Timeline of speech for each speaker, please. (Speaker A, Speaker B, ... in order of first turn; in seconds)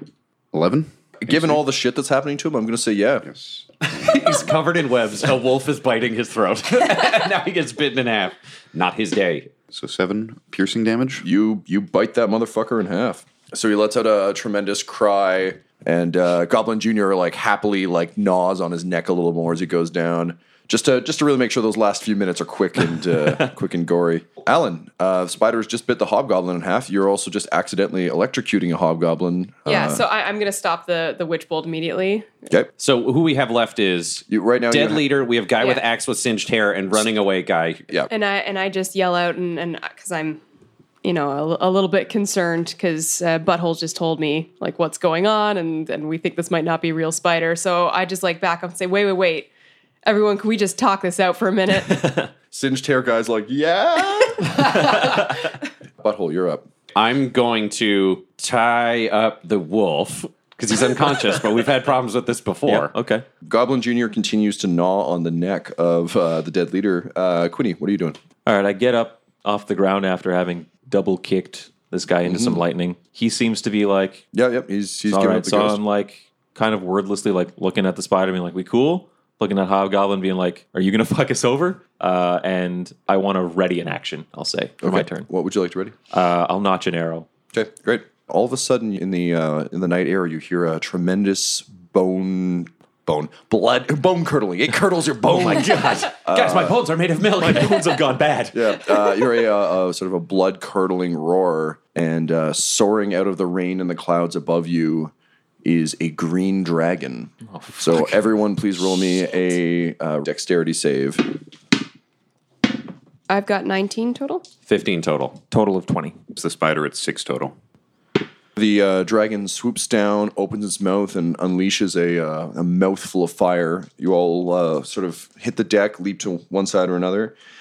Speaker A: 0.5-1.6, 3.2-3.6, 9.7-11.2, 116.3-117.5
Speaker B: 1.2-3.3, 11.2-30.0, 34.3-35.0, 52.5-55.0, 56.0-56.6, 63.4-68.2, 72.2-72.6, 74.3-75.8, 84.8-85.9, 87.5-96.8, 98.5-105.1, 105.6-111.3, 118.6-127.3
Speaker C: 3.8-9.5, 32.8-37.8, 56.9-62.9, 95.5-98.0, 114.7-115.4
Speaker D: 29.7-32.4, 38.1-40.4, 41.0-49.5, 50.0-52.2, 113.3-114.4
Speaker E: 62.6-63.2, 68.4-74.2, 75.1-85.3, 86.1-87.3, 95.3-96.1, 97.3-98.6, 107.5-108.2, 115.5-116.2